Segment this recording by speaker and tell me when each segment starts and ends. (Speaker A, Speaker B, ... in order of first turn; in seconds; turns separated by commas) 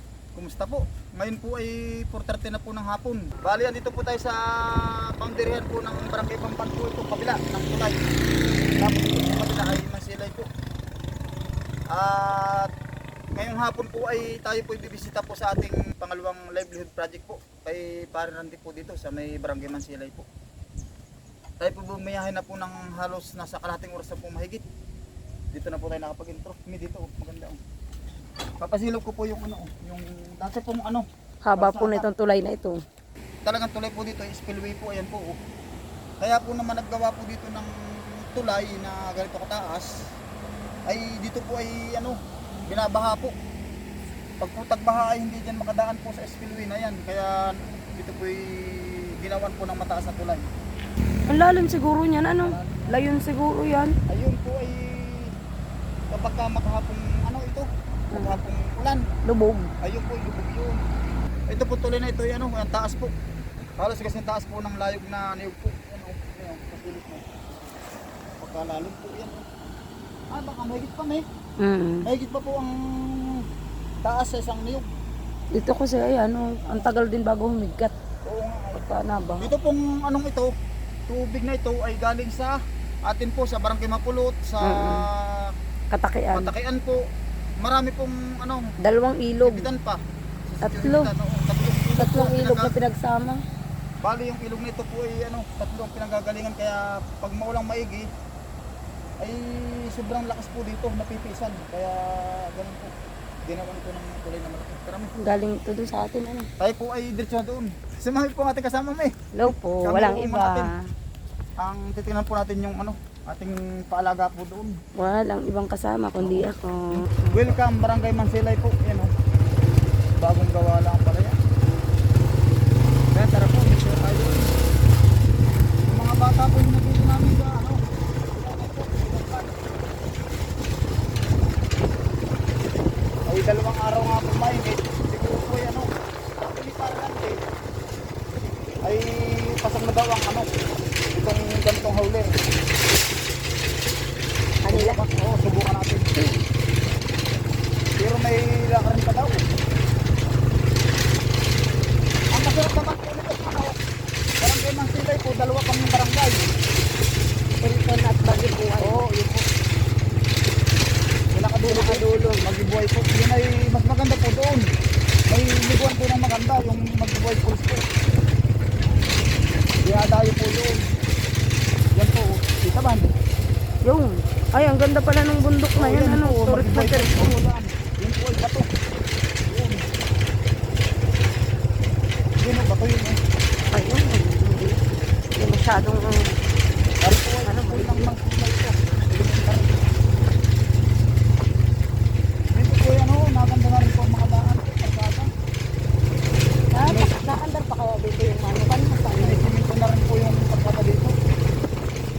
Speaker A: 0.3-8.0, Speaker A: 8.8-10.5, Speaker A: 11.9-12.7, Speaker A: 13.4-20.3, Speaker A: 21.6-24.6, Speaker A: 25.5-27.6, Speaker A: 28.6-32.1, Speaker B: 31.4-32.8, Speaker A: 33.5-35.4, Speaker A: 36.2-39.9, Speaker A: 40.9-43.4, Speaker A: 44.4-50.5, Speaker B: 51.3-53.9, Speaker A: 52.4-53.1, Speaker A: 54.1-55.3, Speaker A: 56.1-59.1, Speaker B: 58.1-58.4, Speaker B: 59.3-59.7, Speaker A: 59.8-60.8, Speaker A: 61.5-63.1, Speaker A: 63.8-67.3, Speaker A: 68.4-69.5, Speaker A: 70.3-71.2, Speaker B: 71.6-72.1, Speaker A: 72.0-73.5, Speaker A: 74.0-74.9, Speaker B: 75.5-77.9, Speaker A: 76.7-76.9, Speaker A: 78.2-80.5, Speaker B: 78.8-79.5, Speaker A: 81.1-85.5, Speaker B: 84.6-85.0, Speaker B: 85.9-86.5, Speaker A: 86.3-87.0, Speaker A: 87.6-88.7, Speaker B: 88.8-89.7, Speaker A: 89.4-92.8, Speaker B: 90.6-91.1, Speaker B: 92.0-93.4, Speaker A: 94.0-98.1, Speaker A: 99.2-102.9, Speaker A: 103.5-105.1, Speaker B: 105.2-106.5, Speaker A: 106.6-110.7, Speaker B: 109.3-110.9, Speaker A: 111.6-114.8, Speaker B: 115.0-117.5, Speaker A: 116.2-119.1, Speaker A: 120.2-121.4, Speaker A: 123.1-124.5, Speaker A: 125.9-127.8, Speaker A: 128.3-129.7, Speaker A: 133.3-135.9, Speaker A: 136.4-137.4, Speaker A: 138.8-140.5, Speaker A: 141.2-142.3, Speaker B: 144.6-145.1, Speaker A: 144.7-146.2, Speaker A: 148.0-149.4, Speaker A: 152.3-153.8, Speaker A: 154.4-156.5, Speaker B: 157.6-159.0, Speaker A: 158.8-159.5, Speaker A: 161.3-164.7, Speaker B: 161.7-162.1, Speaker A: 165.3-167.8, Speaker A: 169.8-170.8, Speaker A: 171.9-173.1, Speaker B: 173.9-177.4, Speaker A: 175.8-178.7, Speaker A: 179.5-179.8, Speaker A: 182.4-183.2, Speaker B: 183.7-184.8, Speaker B: 185.4-186.3, Speaker A: 187.0-189.8, Speaker B: 187.4-188.1, Speaker A: 192.5-195.3, Speaker B: 196.7-199.5, Speaker A: 196.8-197.4, Speaker A: 199.1-201.2